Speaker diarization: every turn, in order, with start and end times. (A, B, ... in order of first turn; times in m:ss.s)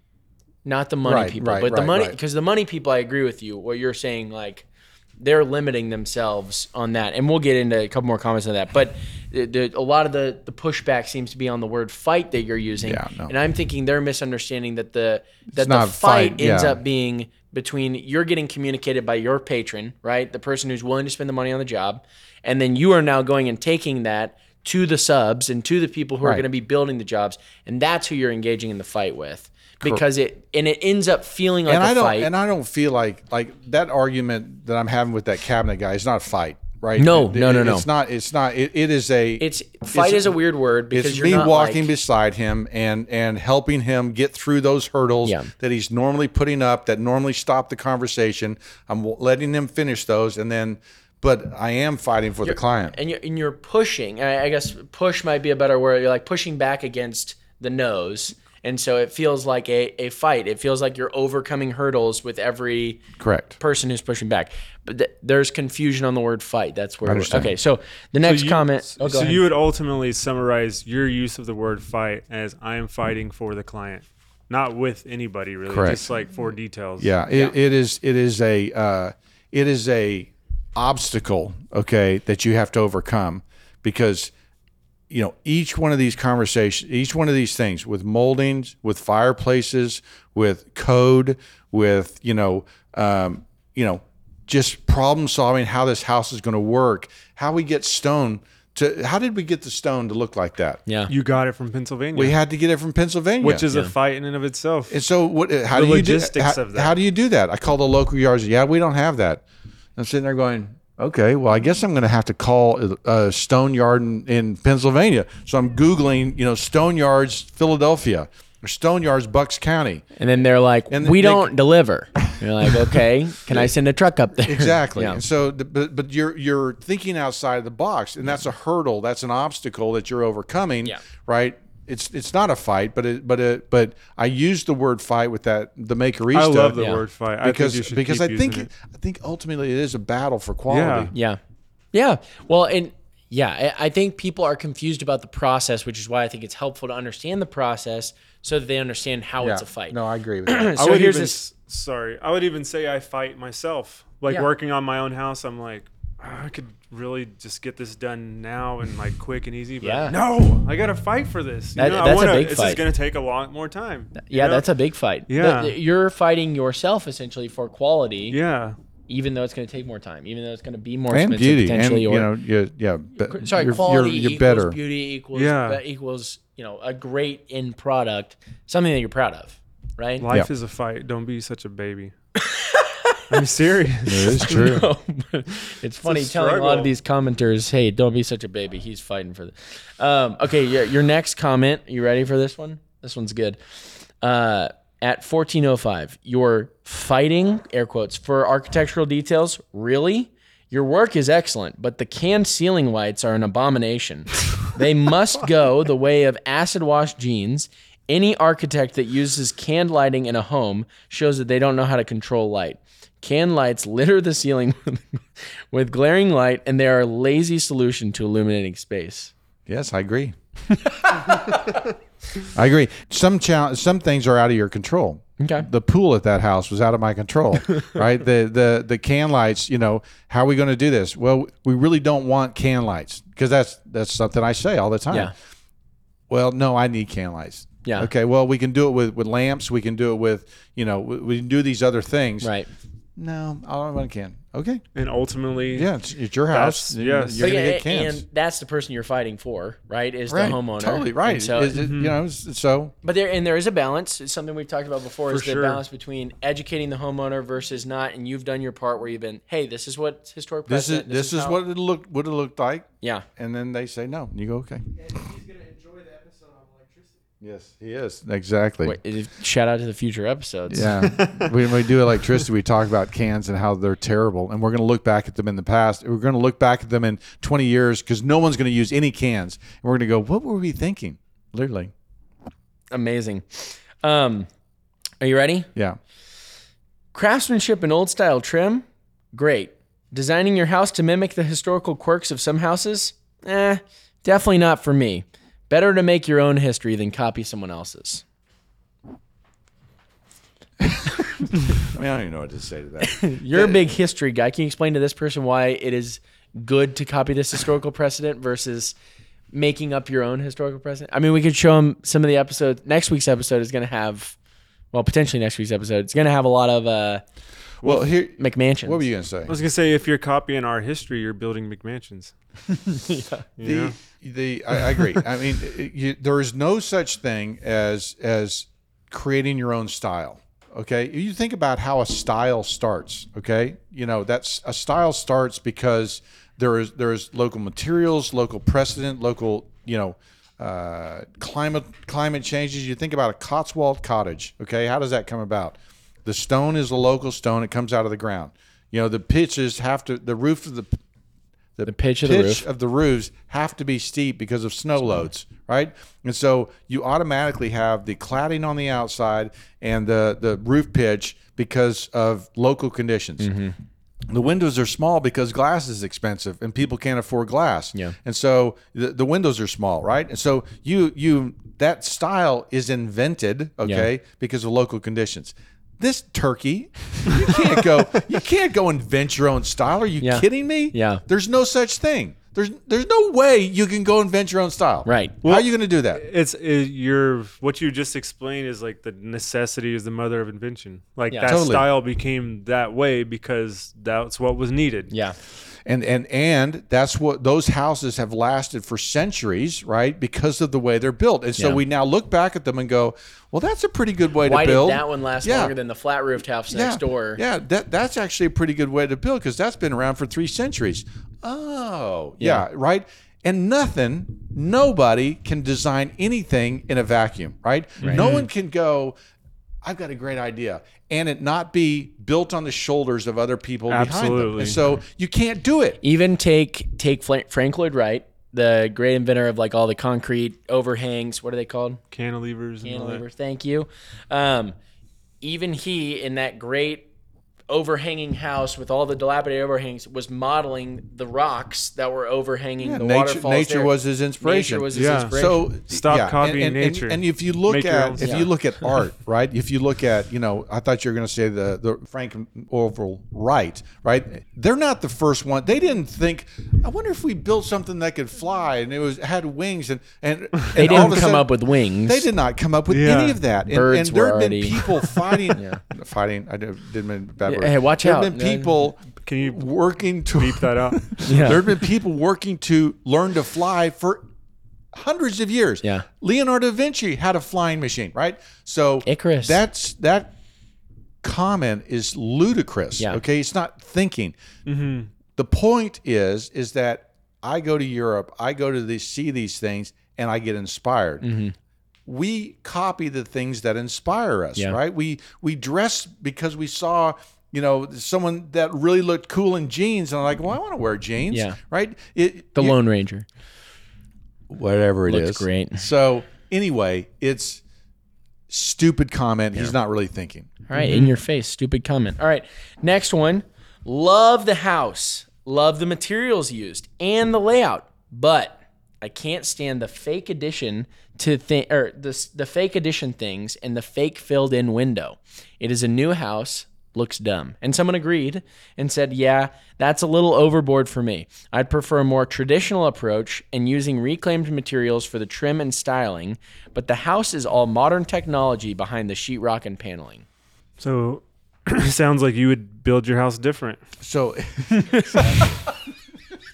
0:00.6-0:04.7 A
0:01.0-0:02.2 B
0:05.2-0:32.3 A
0:12.8-0:13.3 B
0:15.5-0:16.8 B
0:31.7-0:40.4 B
0:37.0-0:37.9 A
0:39.4-0:41.9 A
0:40.9-0:53.0 B
0:45.2-0:45.5 A
0:52.4-1:03.0 A
1:03.2-1:03.6 B
1:03.6-1:09.4 A
1:07.0-1:07.5 B
1:08.2-1:17.1 C
1:15.7-1:16.1 B
1:17.0-1:24.3 B
1:25.1-1:40.8 B
1:40.9-1:41.1 A
1:41.1-1:42.4 C
1:42.2-1:43.6 B
1:43.4-1:45.0 C
1:44.9-1:49.4 B
1:45.7-1:47.0 C
1:50.0-2:00.1 B
2:00.2-2:05.2 A
2:00.9-2:01.5 B
2:02.2-2:03.7 B
2:04.4-2:16.8 B
2:16.3-2:18.7 C
2:16.8-2:17.0 A
2:17.4-2:21.1 B
2:20.7-2:21.1 C
2:21.1-2:21.4 A
2:21.9-2:31.4 A
2:29.4-2:30.7 B
2:30.8-2:44.7 C
2:39.8-2:40.2 A
2:41.8-2:42.8 A
2:44.2-2:48.4 A
2:45.3-2:45.8 C
2:48.3-2:48.8 C
2:49.1-2:52.3 A
2:51.1-2:54.8 B
2:53.2-3:00.3 A
2:55.3-2:55.8 C
3:00.2-3:02.1 C
3:02.4-3:03.4 A
3:03.3-3:04.7 C
3:04.0-3:04.9 B
3:04.2-3:13.6 A
3:06.1-3:06.9 C
3:14.2-3:39.3 A
3:39.7-3:40.4 B
3:40.7-3:41.8 A
3:42.5-3:55.3 B
3:45.4-3:45.7 A
3:56.3-4:02.5 B
3:57.8-3:58.1 A
4:02.4-4:02.7 A
4:03.2-4:04.8 B
4:05.0-4:05.9 C
4:05.7-4:08.2 B
4:06.5-4:07.6 C
4:07.4-4:11.7 A
4:10.3-4:12.9 B
4:11.7-4:12.2 C
4:13.0-4:21.6 A
4:15.3-4:15.8 C
4:20.7-4:25.4 B
4:23.0-4:23.3 A
4:27.4-4:29.0 B
4:28.8-4:31.1 A
4:30.7-4:41.9 B
4:42.9-4:44.5 A
4:45.2-4:45.7 A
4:47.1-4:58.2 A
5:00.8-5:03.8 B
5:03.0-5:09.0 A
5:09.5-5:14.4 A
5:14.9-5:17.2 A
5:17.8-5:19.6 B
5:18.4-5:19.0 A
5:19.5-5:22.3 C
5:22.8-5:23.4 A
5:23.6-5:24.0 C
5:23.6-5:51.0 B
5:51.8-6:03.5 B
5:51.9-5:52.6 A
6:03.4-6:03.8 A
6:04.3-6:26.2 B
6:20.2-6:21.2 A
6:25.0-6:25.4 A
6:25.4-6:35.1 C
6:31.3-6:31.6 A
6:31.5-6:31.9 B
6:35.1-6:35.4 A
6:35.8-6:45.7 B
6:44.4-6:47.4 A
6:46.7-6:59.2 B
6:52.4-6:52.6 A
6:58.0-6:58.3 A
6:58.0-6:58.5 C
6:59.8-7:06.0 B
7:03.9-7:04.8 C
7:06.0-7:12.0 A
7:12.1-7:13.2 C
7:12.8-7:14.8 A
7:15.4-7:17.1 A
7:17.7-7:25.7 A
7:22.8-7:41.5 B
7:24.9-7:29.0 C
7:28.2-7:28.5 A
7:40.8-7:42.3 A
7:42.0-7:54.2 B
7:42.9-7:43.4 C
7:43.7-7:44.8 A
7:45.5-7:45.8 A
7:47.5-7:48.7 A
7:49.2-7:49.7 C
7:50.4-7:51.8 C
7:51.2-7:51.6 A
7:54.9-8:00.3 B
7:59.0-7:59.6 A
8:01.2-8:04.4 B
8:04.7-8:05.1 C
8:05.4-8:11.2 B
8:11.2-8:11.6 A
8:12.1-8:22.8 B
8:21.3-8:21.6 A
8:22.6-8:23.3 A
8:24.5-8:27.6 B
8:25.1-8:25.8 A
8:28.5-8:30.7 B
8:30.7-9:00.2 A
8:30.8-8:31.1 C
9:00.8-9:03.9 C
9:04.0-9:05.6 B
9:04.9-9:05.5 A